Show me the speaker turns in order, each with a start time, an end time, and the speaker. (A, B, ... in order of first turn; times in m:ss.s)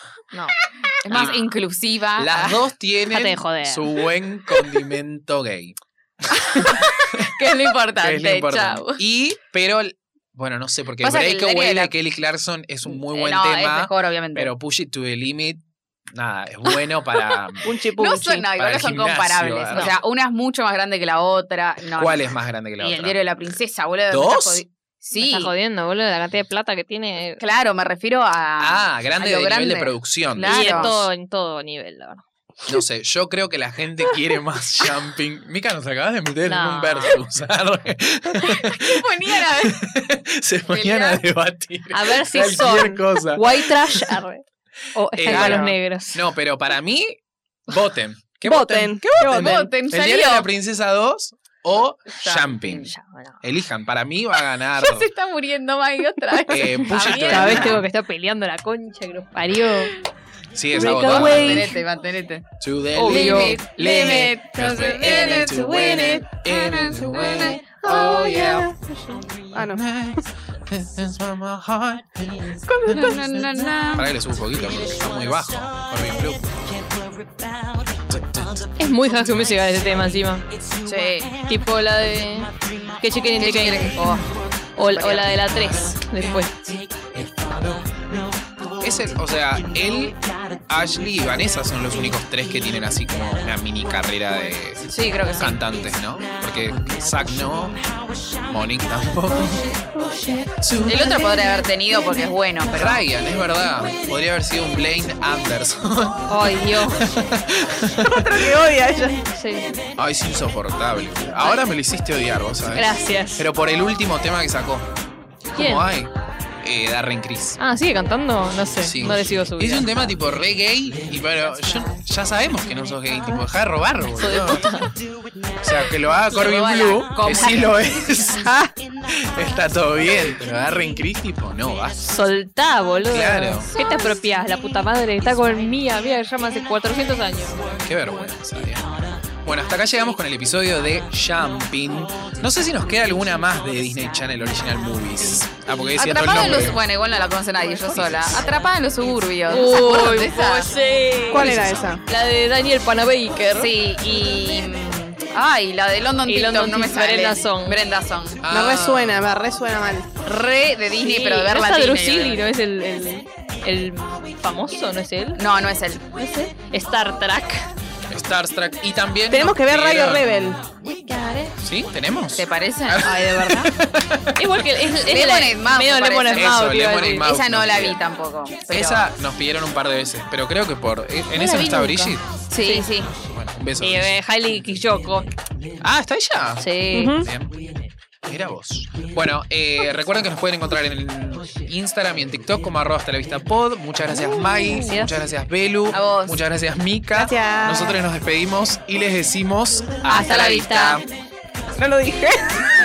0:00.3-0:01.5 A
0:00.9-0:02.6 B
0:01.1-0:01.4 C
0:02.2-0:07.3 C
0:03.1-0:04.0 A
0:06.4-0:09.0 B
0:07.9-0:17.7 C
0:11.0-0:11.9 B
0:12.8-0:14.5 B
0:17.6-0:18.5 D
0:17.9-0:25.5 B
0:18.5-0:19.9 C
0:21.9-0:23.2 C
0:24.1-0:24.6 C
0:25.1-0:27.4 A
0:27.4-0:31.1 B
0:28.6-0:31.0 C
0:30.4-0:32.2 A
0:32.6-0:44.2 C
0:36.4-0:37.2 A
0:38.5-0:39.8 B
0:40.7-0:41.2 B
0:41.9-0:46.2 A
0:45.1-0:55.1 C
0:45.2-0:45.7 B
0:48.4-0:49.6 D
0:49.2-0:50.5 B
0:52.2-0:52.9 B
0:52.8-0:53.4 A
0:54.8-0:57.8 B
0:56.5-0:57.8 C
0:56.9-1:00.0 A
1:00.5-1:01.7 C
1:00.7-1:01.8 A
1:00.8-1:02.5 B
1:02.6-1:08.7 C
1:03.0-1:03.6 A
1:03.0-1:07.6 B
1:05.3-1:06.2 D
1:07.3-1:09.8 D
1:09.6-1:13.2 C
1:12.7-1:13.2 D
1:12.9-1:14.1 B
1:13.8-1:16.4 C
1:18.1-1:18.7 C
1:18.8-1:20.4 A
1:20.8-1:21.3 B
1:21.4-1:24.2 A
1:23.4-1:24.3 B
1:24.8-1:26.6 A
1:24.9-1:25.3 B
1:28.8-1:39.8 C
1:34.9-1:35.6 B
1:39.9-1:40.4 D
1:40.6-1:41.2 C
1:40.8-1:43.0 B
1:42.6-1:46.3 C
1:46.3-1:47.1 A
1:46.9-1:48.5 C
1:48.0-1:49.2 D
1:49.3-1:49.8 A
1:50.0-1:54.9 C
1:52.7-1:53.5 A
1:55.5-1:57.6 C
1:55.5-1:55.9 A
1:57.6-2:00.1 A
1:58.8-2:04.8 C
2:04.2-2:04.9 A
2:05.6-2:08.6 C
2:06.3-2:07.9 B
2:07.3-2:07.6 A
2:08.4-2:08.7 D
2:09.1-2:12.1 C
2:12.1-2:17.8 A
2:13.1-2:13.7 C
2:13.7-2:14.2 B
2:17.8-2:18.9 C
2:19.4-2:26.8 C
2:26.0-2:30.8 B
2:27.8-2:28.4 C
2:29.5-2:33.7 A
2:31.3-2:32.0 D
2:31.4-2:31.8 C
2:33.5-2:38.4 B
2:36.2-2:37.8 A
2:38.4-2:39.3 C
2:38.5-2:40.1 D
2:40.2-2:42.4 B
2:41.0-2:45.4 A
2:45.4-2:46.0 B
2:46.2-2:47.7 A
2:48.1-2:50.4 C
2:49.3-2:50.8 D
2:50.8-2:51.5 A
2:51.6-2:54.4 C
2:52.4-2:53.1 B
2:53.0-2:53.7 A
2:54.4-2:57.3 A
2:55.0-2:59.1 B
2:56.3-2:58.0 C
2:58.7-3:02.2 C
3:01.3-3:02.9 A
3:02.5-3:03.1 B
3:03.2-3:04.1 C
3:03.8-3:05.3 A
3:05.8-3:06.6 C
3:06.6-3:07.2 A
3:06.9-3:07.3 D
3:07.2-3:07.6 C
3:08.2-3:21.0 C
3:14.1-3:14.8 D
3:14.6-3:15.1 A
3:15.9-3:16.4 B
3:17.1-3:18.1 D
3:20.0-3:21.0 A
3:20.1-3:21.0 B
3:21.8-3:22.7 D